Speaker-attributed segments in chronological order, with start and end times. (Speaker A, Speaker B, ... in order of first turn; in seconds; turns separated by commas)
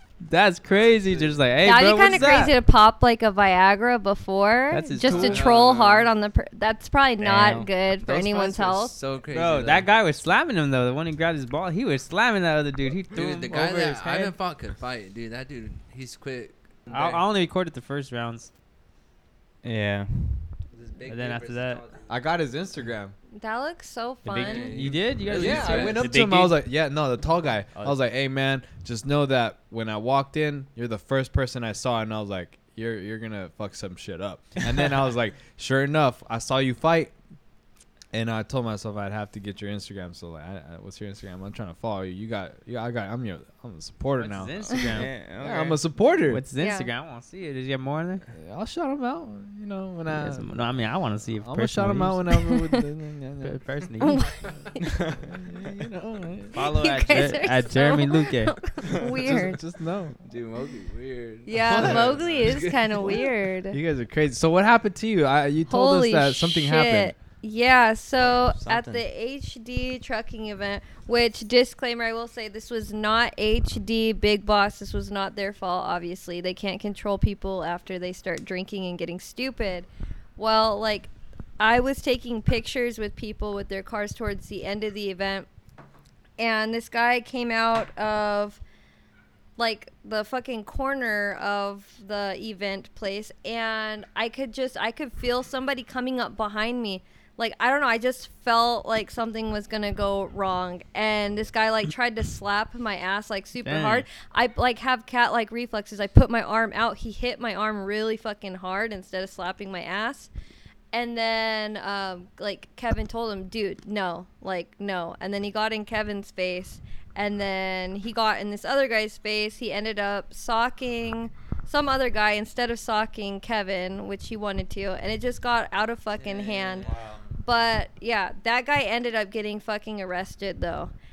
Speaker A: 0.2-2.5, Speaker B: 0.7-1.5, Speaker C: 1.6-8.9, Speaker A: 4.7-5.5, Speaker B: 5.0-6.1, Speaker D: 7.2-7.7, Speaker B: 8.0-9.9, Speaker A: 9.3-14.3, Speaker B: 13.1-17.2, Speaker A: 16.9-18.5, Speaker D: 19.6-20.5, Speaker B: 20.7-22.1, Speaker A: 21.1-21.8, Speaker E: 22.1-23.1, Speaker C: 23.4-24.9, Speaker A: 24.2-26.1, Speaker B: 24.3-26.1, Speaker E: 25.3-37.1, Speaker D: 25.9-26.6, Speaker E: 38.1-44.8, Speaker A: 44.2-45.1, Speaker D: 44.9-45.8, Speaker E: 45.4-46.4, Speaker A: 46.3-48.2, Speaker C: 46.6-46.9, Speaker E: 48.3-50.5, Speaker A: 50.1-52.3, Speaker E: 51.4-53.6, Speaker A: 53.4-54.2, Speaker C: 54.0-55.0, Speaker E: 54.9-56.7, Speaker A: 56.5-58.6, Speaker C: 56.6-59.6, Speaker E: 58.9-60.2, Speaker B: 60.2-63.3, Speaker C: 61.5-63.8, Speaker E: 61.6-62.3, Speaker E: 63.7-67.1, Speaker C: 65.7-85.5, Speaker D: 68.6-69.0, Speaker C: 86.4-88.6, Speaker C: 89.6-110.3, Speaker A: 103.6-104.1, Speaker C: 110.9-126.9, Speaker B: 126.2-127.2, Speaker C: 127.4-130.9